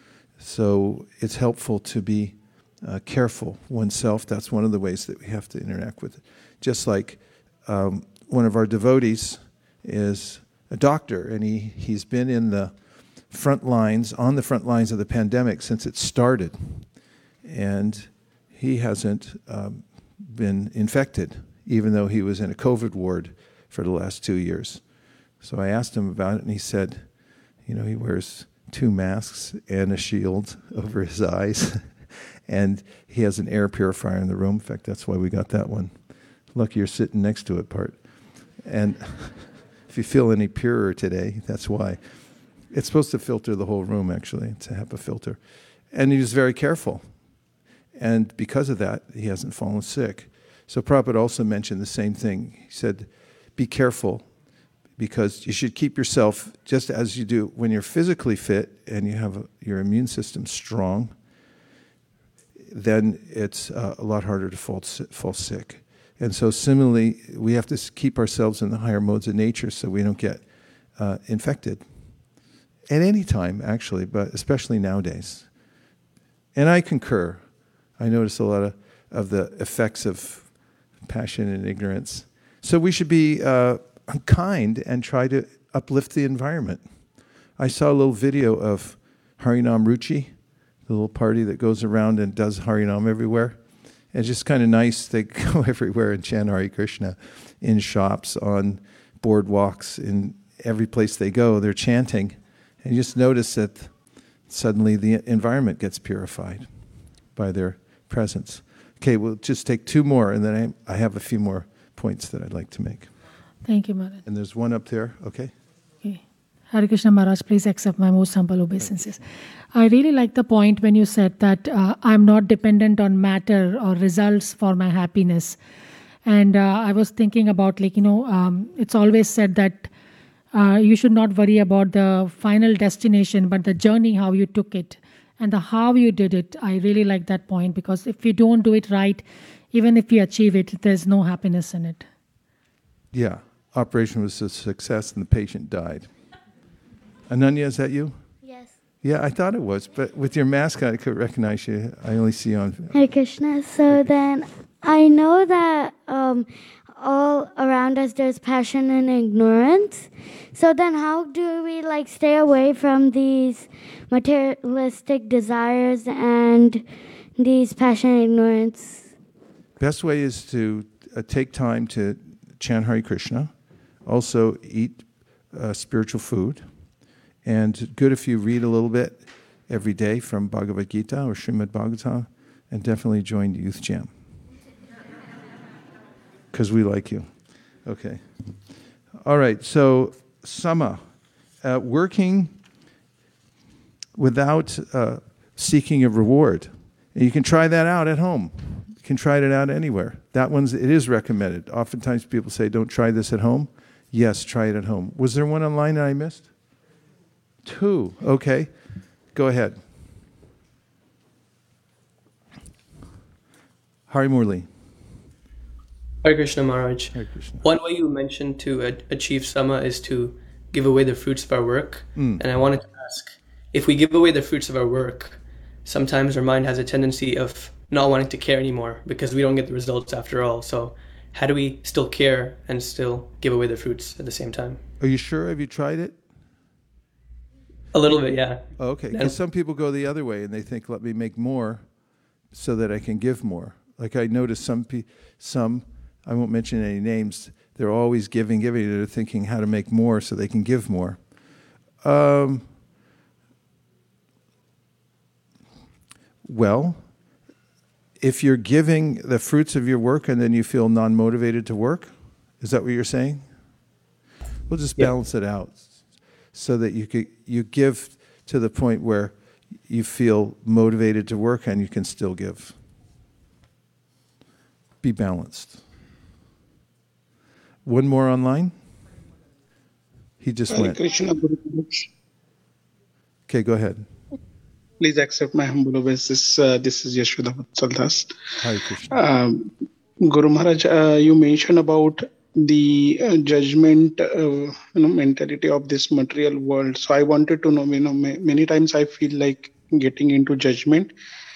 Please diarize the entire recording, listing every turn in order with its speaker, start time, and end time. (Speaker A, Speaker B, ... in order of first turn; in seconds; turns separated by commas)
Speaker A: 0.4-12.7, Speaker A: 13.3-16.9, Speaker A: 17.4-24.8, Speaker A: 25.4-27.1, Speaker A: 27.7-31.9, Speaker A: 32.5-35.9, Speaker A: 36.5-38.0, Speaker A: 38.6-42.0, Speaker A: 42.7-45.4, Speaker A: 45.9-47.0, Speaker A: 48.0-54.3, Speaker A: 55.0-61.1, Speaker A: 62.7-70.4, Speaker A: 71.0-71.8, Speaker A: 72.9-75.5, Speaker A: 76.5-77.4, Speaker A: 78.0-80.5, Speaker A: 81.0-86.8, Speaker A: 87.6-90.3, Speaker A: 90.9-93.6, Speaker A: 94.1-103.9, Speaker A: 104.5-106.7, Speaker A: 107.3-113.1, Speaker B: 113.6-114.2, Speaker A: 114.3-115.5, Speaker B: 116.0-125.6, Speaker B: 126.2-129.9, Speaker B: 130.5-142.1, Speaker A: 143.1-146.1, Speaker A: 147.3-148.2, Speaker A: 149.0-153.0, Speaker C: 153.0-166.8, Speaker C: 167.4-169.0, Speaker A: 169.8-173.5, Speaker A: 174.1-176.6, Speaker A: 177.4-184.1, Speaker A: 186.5-187.3, Speaker A: 187.8-188.3, Speaker A: 189.2-191.1, Speaker A: 191.6-192.6, Speaker A: 194.2-206.5, Speaker A: 207.7-208.7, Speaker A: 209.3-209.8, Speaker A: 214.1-214.7, Speaker D: 216.2-234.8, Speaker A: 217.1-217.6, Speaker A: 222.2-222.4, Speaker A: 235.0-236.2, Speaker D: 237.9-239.4, Speaker A: 238.8-241.8, Speaker A: 242.5-251.2, Speaker A: 252.0-252.7, Speaker A: 256.4-257.0, Speaker A: 258.2-263.5, Speaker A: 264.7-265.9, Speaker A: 266.5-269.4, Speaker A: 269.9-272.8, Speaker A: 275.0-275.8, Speaker A: 277.9-278.7, Speaker A: 280.4-281.0, Speaker E: 280.7-282.1, Speaker A: 283.5-284.1, Speaker E: 285.0-288.3, Speaker A: 288.6-289.1, Speaker E: 289.1-289.7, Speaker E: 290.2-301.1